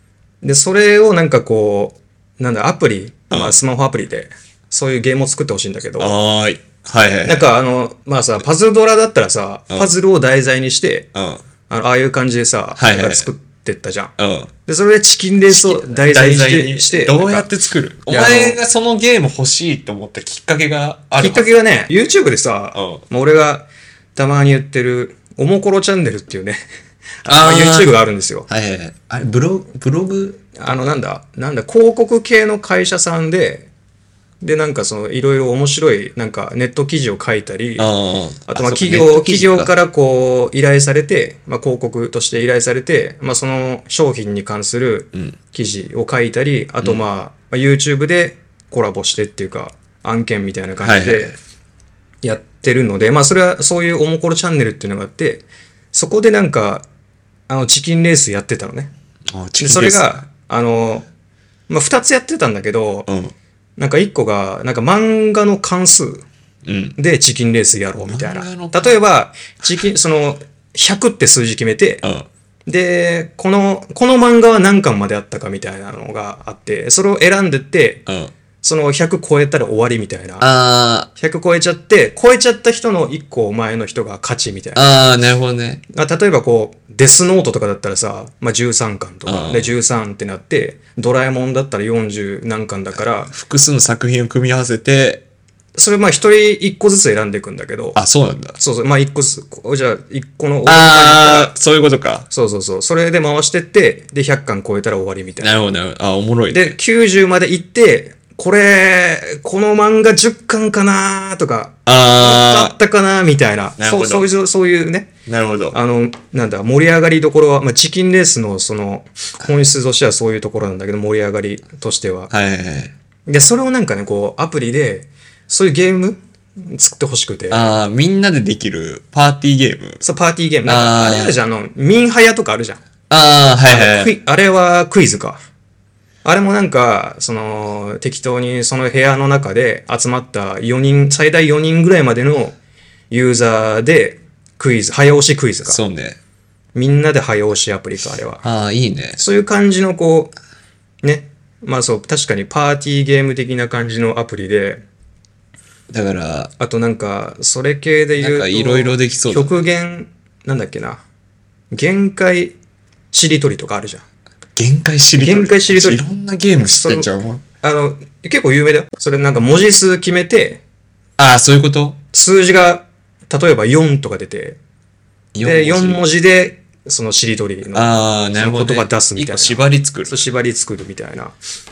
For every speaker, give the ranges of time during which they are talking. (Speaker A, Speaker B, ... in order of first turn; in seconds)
Speaker A: 0.4-6.2, 7.2-11.1, 11.7-14.1, 14.7-17.5, 18.1-18.6, 21.2-26.6, 27.2-28.5, 30.6-33.7, 34.4-37.9, 38.5-51.3, 52.2-56.8, 57.5-58.9, 59.6-61.1, 61.7-63.1, 63.8-66.2, 67.0-72.0, 72.7-78.0, 78.6-80.5, 81.2-84.8, 85.9-93.3, 95.8-98.0, 98.6-101.5, 102.3-105.6, 106.5-115.1, 115.7-122.3, 123.3-127.6, 130.0-132.8, 133.7-135.4, 136.2-142.6, 143.1-145.8, 146.7-148.4, 149.2-150.3, 151.0-154.8, 156.6-161.0, 161.7-162.6, 163.1-164.0, 165.2-166.0, 166.6-167.1, 167.6-170.6, 172.1-174.6, 175.4-181.4
Speaker B: 3.3-3.6, 6.0-7.5, 11.2-11.4, 12.8-13.3, 14.2-14.5, 15.5-21.6, 22.8-23.0, 27.3-31.0, 37.8-39.7, 50.8-51.4, 59.3-60.2, 63.1-63.3, 66.7-67.0, 68.0-69.0, 72.0-72.3, 78.1-78.3, 80.4-81.1, 84.8-85.8, 89.2-89.8, 92.9-95.2, 97.9-98.6, 100.7-102.3, 105.4-106.8, 111.8-112.8, 113.8-114.3, 115.3-115.8, 122.3-122.9, 127.5-130.0, 130.7-131.4, 133.1-134.1, 145.7-146.2, 148.4-149.2, 155.9-156.5, 158.2-159.7, 164.6-167.4, 171.2-172.0, 175.3-176.0, 177.7-180.3